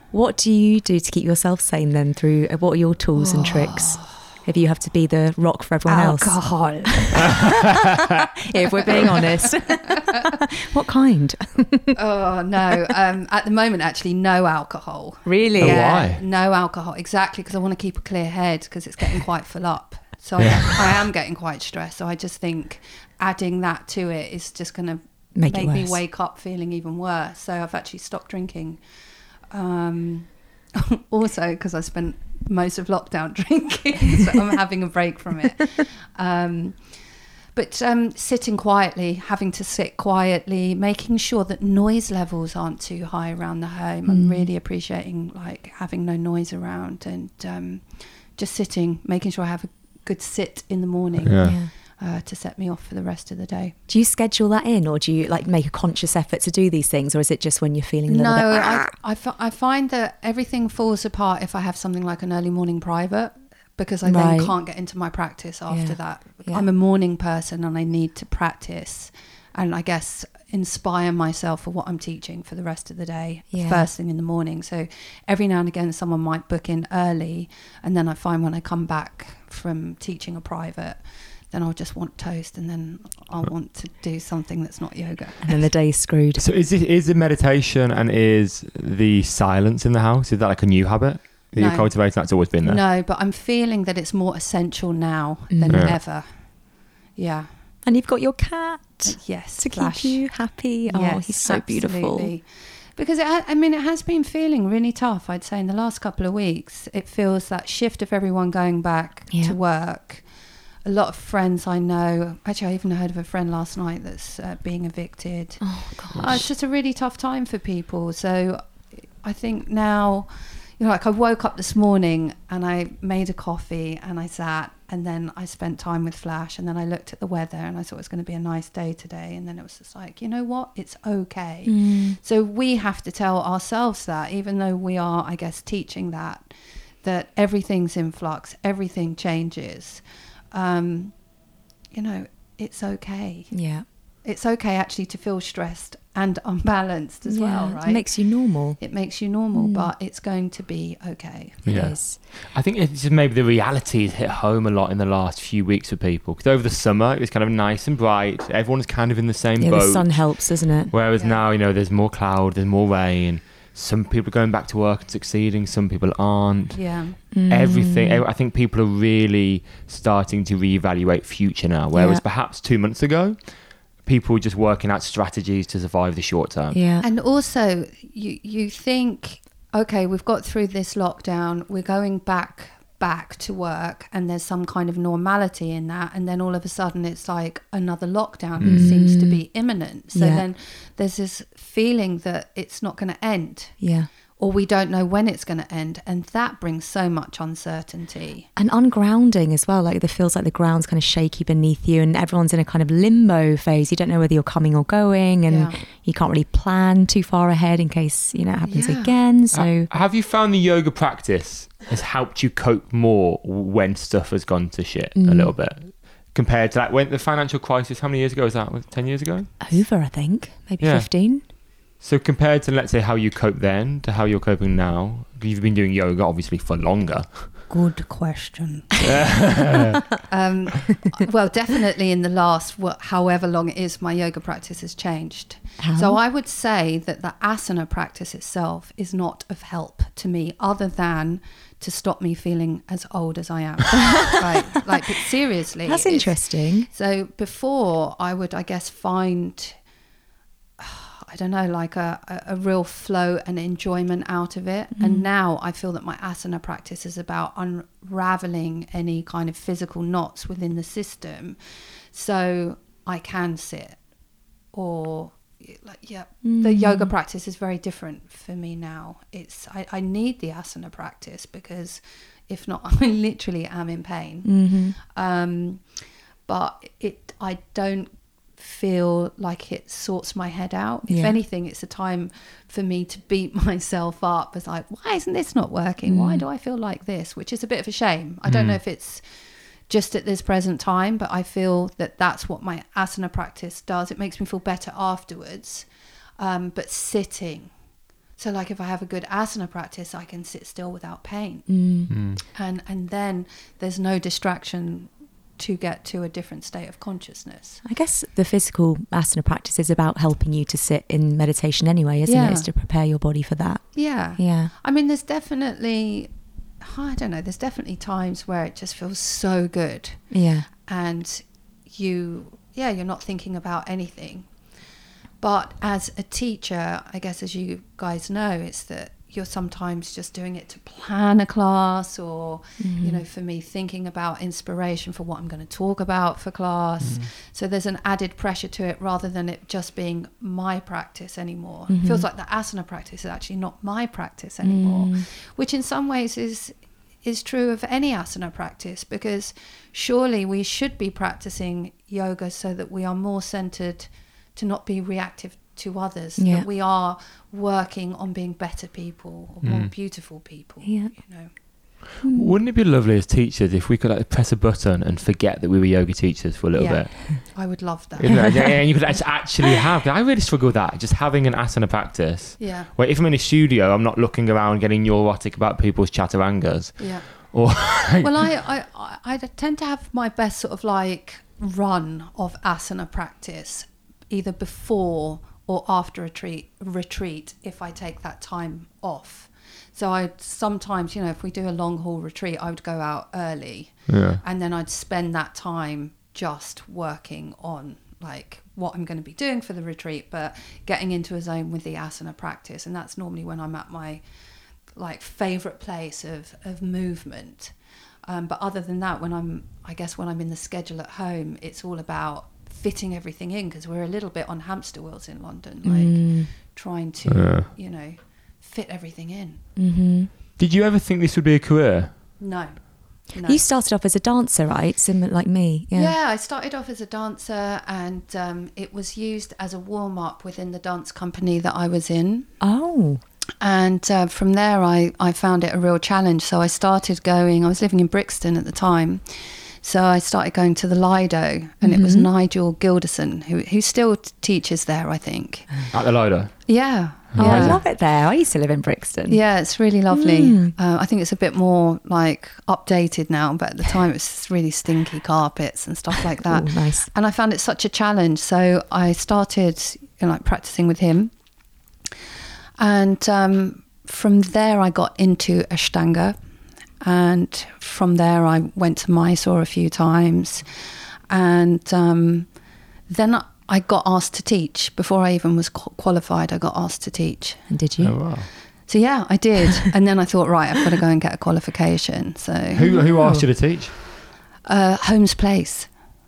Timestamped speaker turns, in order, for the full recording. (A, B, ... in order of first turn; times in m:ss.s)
0:00.1-0:07.6 A
0:03.2-0:04.2 B
0:05.8-0:07.5 B
0:08.5-0:11.9 A
0:08.9-0:09.2 B
0:11.9-0:28.8 B
0:15.2-0:16.0 A
0:15.6-0:16.2 C
0:20.4-0:21.0 C
0:25.3-0:26.0 A
0:29.5-0:36.8 B
0:37.5-0:53.7 B
0:44.0-0:44.5 A
0:51.2-0:51.6 C
0:51.4-0:51.7 A
0:53.9-0:58.9 A
0:58.1-1:25.5 B
1:04.0-1:04.6 A
1:05.7-1:06.6 A
1:13.5-1:13.9 A
1:25.4-1:26.4 A
1:26.4-1:32.8 C
1:31.6-1:36.3 B
1:35.5-1:36.0 A
1:35.7-1:36.0 C
1:37.2-1:37.5 B
1:37.8-1:42.3 A
1:39.0-1:50.2 B
1:50.8-2:21.1 B
1:55.6-1:56.4 A
1:56.1-1:56.5 C
2:11.6-2:12.2 A
2:21.9-2:31.6 B
2:23.5-2:23.8 A
2:27.2-2:28.8 A
2:29.5-2:29.9 A
2:31.6-2:46.9 C
2:31.6-2:32.2 A
2:39.6-2:40.9 A
2:41.1-2:41.4 B
2:46.7-2:47.2 B
2:47.3-2:48.2 A
2:47.5-2:56.8 C
2:51.9-2:52.2 A
2:56.7-2:57.0 A
2:57.0-3:13.8 B
3:08.6-3:09.0 C
3:08.6-3:09.4 A
3:10.1-3:10.4 A
3:13.8-3:14.1 A
3:14.4-3:18.5 B
3:18.6-3:29.9 A
3:25.5-3:25.8 B
3:28.7-3:29.1 B
3:29.5-3:39.5 C
3:35.1-3:35.5 A
3:39.6-3:41.4 A
3:40.8-3:47.6 C
3:47.7-3:48.9 B
3:49.0-3:50.0 C
3:50.3-4:09.8 B
3:55.8-3:56.2 A
4:05.8-4:06.9 A
4:10.8-4:21.6 B
4:15.0-4:15.2 A
4:22.1-4:24.0 B
4:24.7-4:35.8 B
4:26.4-4:27.1 A
4:34.4-4:35.0 A
4:36.4-4:49.2 B
4:41.1-4:41.4 A
4:46.0-4:46.4 A
4:48.4-4:48.8 C
4:49.9-4:55.9 B
4:56.4-4:57.7 B
4:58.4-5:07.8 B
5:01.7-5:02.1 A
5:02.1-5:02.4 C
5:07.8-5:14.7 A
5:12.2-5:12.7 B
5:13.9-5:20.3 B
5:20.3-5:20.7 A
5:20.8-5:24.5 B
5:25.4-6:01.5 B
5:32.8-5:33.2 A
5:37.0-5:37.3 C
5:41.9-5:42.2 A
5:44.6-5:45.2 A
5:56.4-5:56.7 A
5:59.6-5:59.9 C
6:00.8-6:01.3 A
6:02.2-6:02.5 A
6:02.3-6:07.4 C
6:06.7-6:08.8 B
6:08.2-6:18.5 C
6:08.2-6:08.7 A
6:12.6-6:12.9 B
6:17.0-6:17.5 B
6:18.2-6:44.2 B
6:34.1-6:34.4 C
6:44.9-6:59.6 B
6:55.8-6:56.5 A
6:57.2-6:57.7 C
6:59.8-7:00.3 A
7:00.6-7:02.2 C
7:02.4-7:03.6 B
7:03.4-7:06.1 A
7:05.9-7:12.5 B
7:12.6-7:13.2 A
7:13.6-7:19.2 B
7:19.8-7:25.9 B
7:21.8-7:22.3 A
7:25.9-7:26.7 C
7:26.6-7:27.8 B
7:27.3-7:27.8 C
7:27.4-7:30.7 A
7:29.3-7:41.3 B
7:36.4-7:37.1 A
7:42.8-7:46.4 B
7:47.0-7:52.5 B
7:53.1-7:57.7 B
7:57.7-7:58.2 A
7:58.0-7:58.5 C
7:58.8-8:03.0 B
8:02.7-8:03.9 C
8:02.8-8:03.5 A
8:04.6-8:05.9 B